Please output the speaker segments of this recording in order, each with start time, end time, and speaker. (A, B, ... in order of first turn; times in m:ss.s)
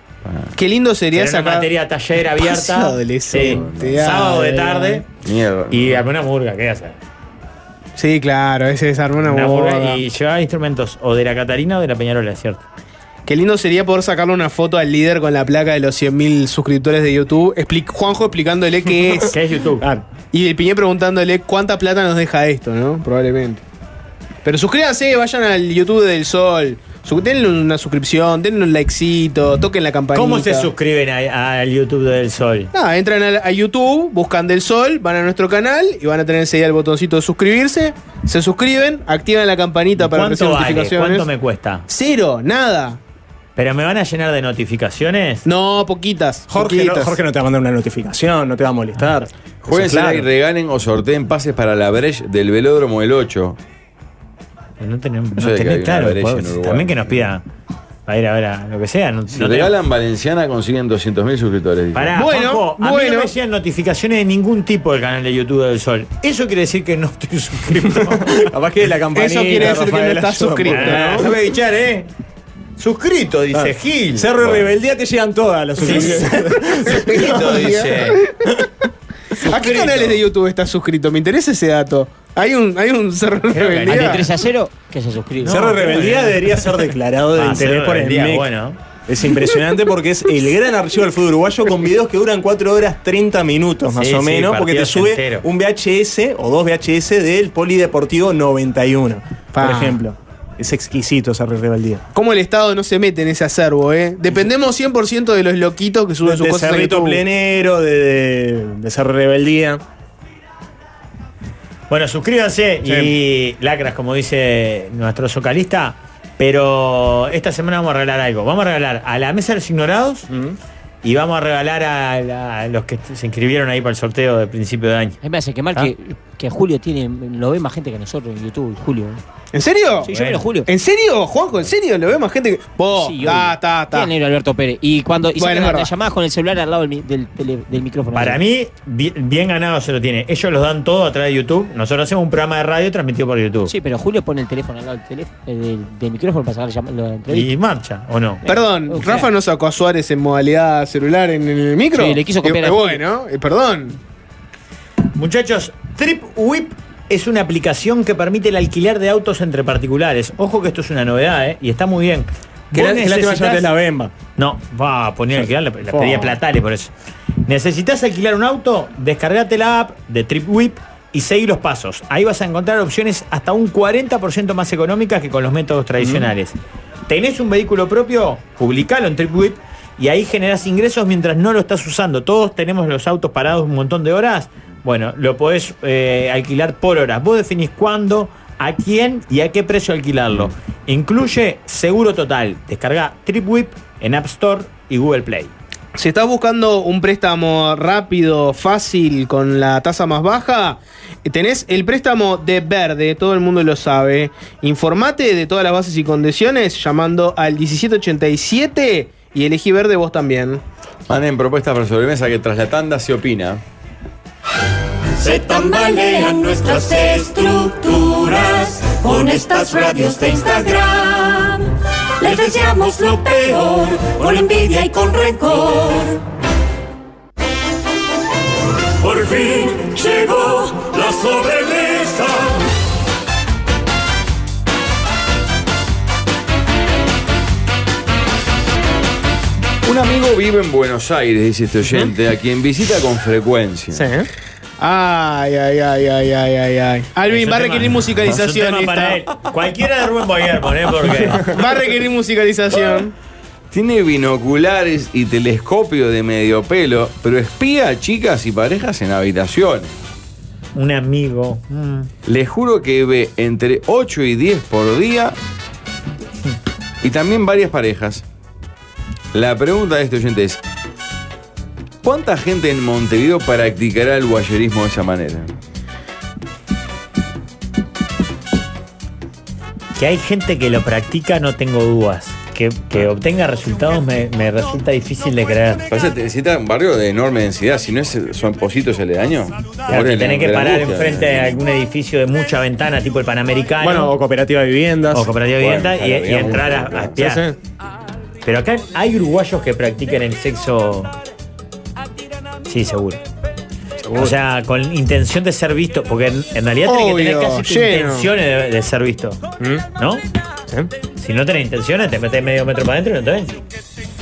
0:00.2-0:00.6 A
0:00.6-0:01.7 B
0:01.1-0:05.0 C
0:02.4-0:05.0 B
0:03.3-0:04.1 A
0:05.2-0:06.0 A
0:05.7-0:07.0 C
0:08.0-0:10.0 B
0:09.2-0:12.6 C
0:13.3-0:19.4 B
0:19.3-0:19.9 C
0:19.8-0:20.0 D
0:20.3-0:23.6 B
0:24.4-0:30.7 B
0:30.1-0:32.7 C
0:32.7-0:41.3 B
0:40.0-0:41.9 C
0:41.9-0:43.0 B
0:43.6-0:45.5 C
0:45.4-0:47.2 B
0:46.5-0:49.3 D
0:49.6-0:53.6 A
0:49.7-0:50.3 C
0:54.8-0:57.4 C
0:55.4-0:57.3 A
0:58.1-0:59.7 C
0:59.3-1:02.2 A
1:01.9-1:08.4 C
1:02.1-1:03.3 B
1:07.8-1:11.3 D
1:09.1-1:11.3 B
1:10.7-1:12.1 C
1:12.8-1:14.3 C
1:13.5-1:17.5 D
1:14.4-1:14.7 A
1:15.8-1:18.3 C
1:16.9-1:18.4 B
1:19.4-1:20.2 C
1:19.4-1:24.2 B
1:23.5-1:24.3 C
1:23.8-1:25.8 E
1:25.4-1:28.5 D
1:25.5-1:28.8 C
1:29.1-1:42.0 D
1:34.0-1:35.5 C
1:39.6-1:40.0 B
1:42.1-1:47.2 B
1:46.2-1:49.8 D
1:51.9-2:00.3 C
1:52.8-1:53.2 D
2:00.3-2:00.6 D
2:01.0-2:05.2 C
2:05.2-2:09.2 E
2:09.5-2:10.1 B
2:10.0-2:10.7 E
2:10.1-2:10.4 C
2:10.7-2:14.1 B
2:12.9-2:18.4 E
2:15.4-2:15.9 B
2:18.1-2:23.7 C
2:23.7-2:27.5 E
2:27.3-2:28.4 C
2:28.4-2:29.3 E
2:28.5-2:34.0 B
2:31.9-2:33.0 E
2:35.1-2:43.7 C
2:42.7-2:44.1 D
2:44.4-2:46.9 C
2:45.4-2:46.4 D
2:47.5-2:56.6 C
2:56.0-2:56.3 D
2:57.1-3:15.5 C
3:16.0-3:30.6 B
3:31.1-3:33.6 A
3:35.2-3:46.2 F
3:49.0-3:52.6 F
3:59.8-4:04.1 A
4:03.9-4:04.3 D
4:04.8-4:09.2 B
4:07.3-4:11.5 C
4:11.5-4:13.1 B
4:13.7-4:19.9 A
4:20.8-4:22.1 C
4:22.2-4:25.4 A
4:27.0-4:28.2 A
4:29.3-4:30.6 A
4:32.0-4:35.5 A
4:40.0-4:45.9 C
4:45.9-4:51.6 A
4:49.9-4:54.2 C
4:53.8-4:55.3 D
4:55.1-4:57.5 C
4:55.6-4:57.2 A
4:57.2-4:57.6 D
4:58.4-5:01.1 C
5:02.7-5:03.2 C
5:04.0-5:04.4 D
5:04.1-5:09.4 C
5:06.9-5:08.3 B
5:09.6-5:09.8 D
5:10.0-5:10.2 C
5:11.2-5:13.6 C